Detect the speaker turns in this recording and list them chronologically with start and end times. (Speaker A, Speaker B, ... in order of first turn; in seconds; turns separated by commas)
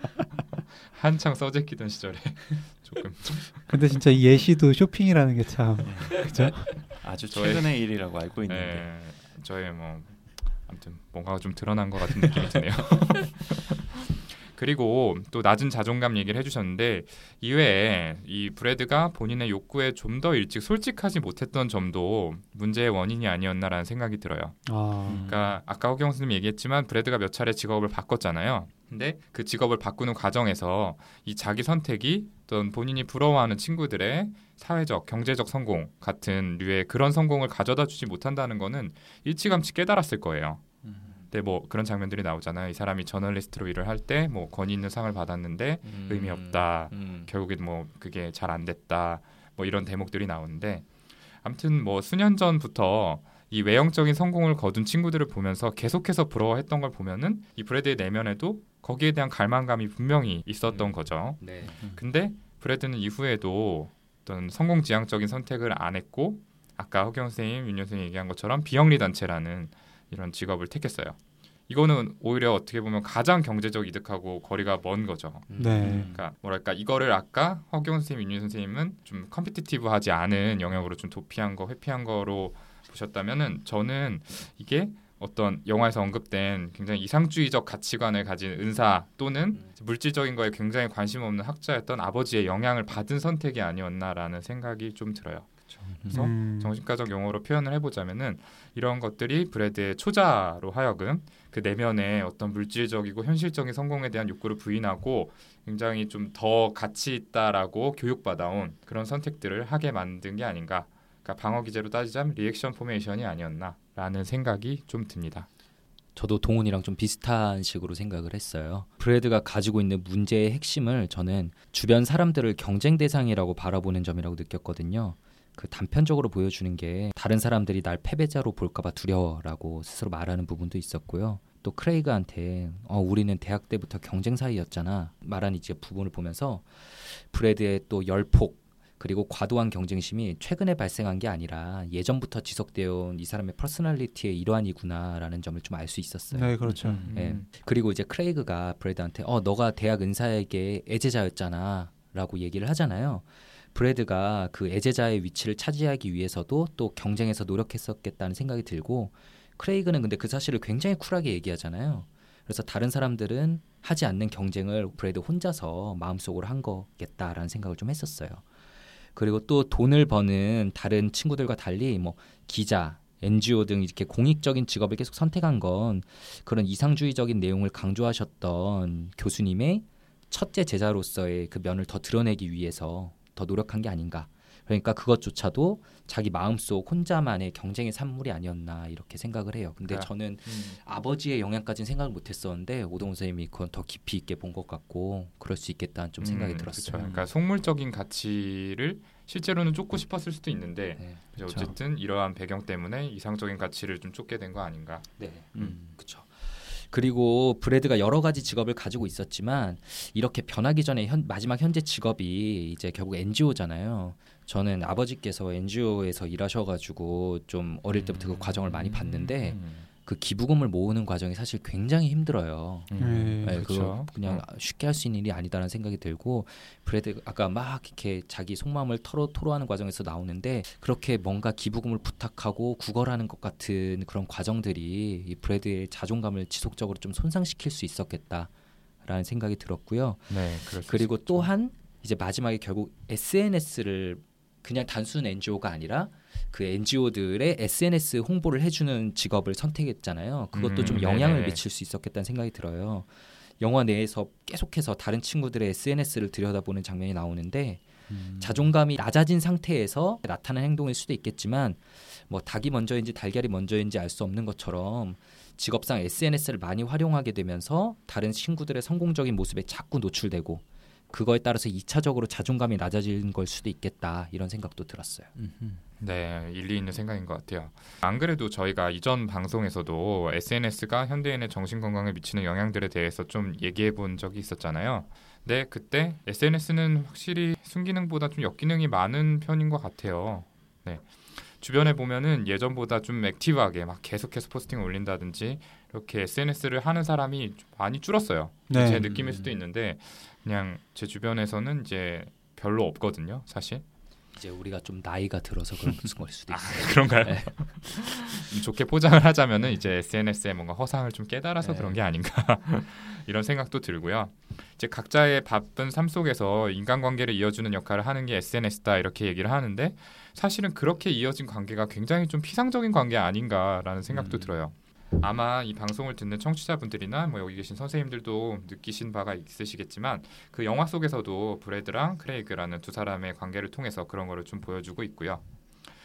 Speaker A: 0.8-3.6, Speaker B: 3.7-6.8, Speaker C: 5.8-8.9, Speaker A: 7.3-7.9, Speaker A: 8.4-40.7, Speaker B: 24.7-25.3, Speaker C: 25.1-25.6, Speaker C: 40.9-41.1, Speaker A: 41.3-50.9, Speaker D: 45.8-47.3, Speaker A: 51.4-71.2, Speaker D: 61.4-61.8, Speaker A: 71.7-95.5, Speaker D: 75.5-75.8, Speaker B: 75.6-76.1, Speaker C: 75.8-76.2, Speaker C: 96.0-96.3, Speaker A: 96.0-115.5, Speaker B: 96.1-96.8, Speaker D: 116.2-146.6, Speaker B: 146.3-147.0, Speaker C: 146.8-147.2, Speaker A: 147.1-147.5, Speaker D: 147.1-168.4, Speaker D: 169.2-197.1, Speaker A: 189.9-190.8, Speaker A: 196.2-205.1, Speaker C: 197.0-197.3, Speaker C: 201.4-201.7, Speaker D: 205.2-238.5, Speaker C: 205.6-205.9, Speaker A: 218.9-219.9, Speaker A: 222.9-224.4, Speaker B: 223.0-223.6, Speaker D: 239.0-257.9, Speaker A: 240.3-241.5, Speaker A: 250.5-251.6, Speaker C: 258.1-258.7, Speaker D: 258.4-275.3, Speaker C: 275.4-275.8, Speaker A: 276.0-303.8, Speaker B: 298.7-299.1, Speaker C: 299.1-299.5, Speaker D: 304.3-307.7, Speaker A: 306.5-335.4, Speaker D: 311.6-312.0, Speaker C: 324.1-324.5